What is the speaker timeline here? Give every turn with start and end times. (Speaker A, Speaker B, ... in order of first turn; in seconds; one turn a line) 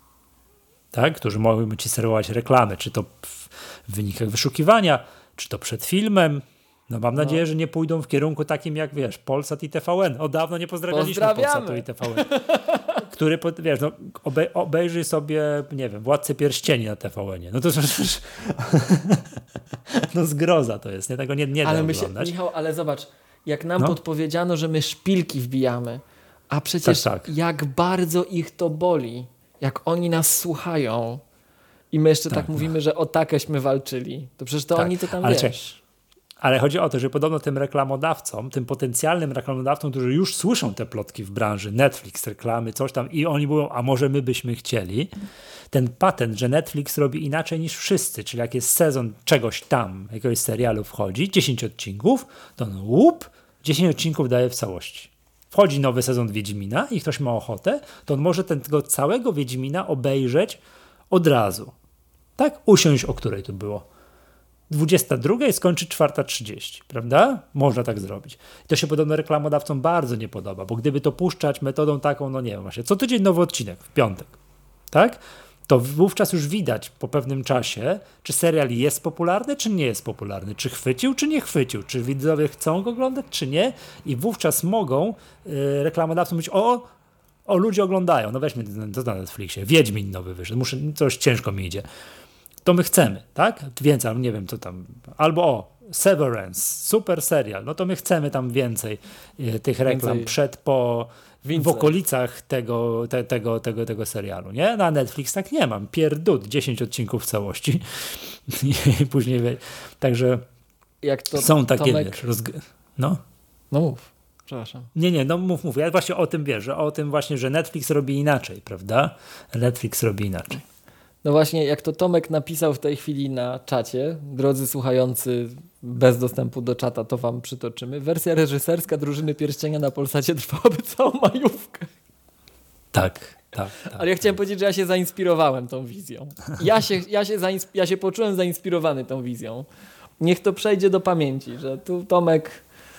Speaker A: 0.9-12.4
Speaker B: 7.2-7.4
Speaker B: 10.9-13.0
Speaker A: 12.9-22.3
Speaker B: 21.6-31.2
Speaker A: 26.8-27.3
Speaker B: 31.9-35.6
Speaker A: 32.3-32.7
Speaker A: 34.8-35.8
Speaker A: 36.4-45.1
Speaker A: 45.7-60.6
Speaker A: 61.1-61.8
Speaker A: 62.4-63.9
Speaker A: 64.7-74.3
Speaker A: 74.9-86.9
Speaker A: 87.5-91.8
Speaker A: 92.7-110.4
Speaker B: 99.9-100.3
Speaker B: 101.5-102.0
Speaker B: 111.0-112.2
Speaker A: 111.3-113.2
Speaker B: 113.7-114.9
Speaker A: 114.9-120.6
Speaker B: 121.2-131.9
Speaker A: 132.9-134.1
Speaker B: 133.8-139.7
Speaker B: 140.2-142.6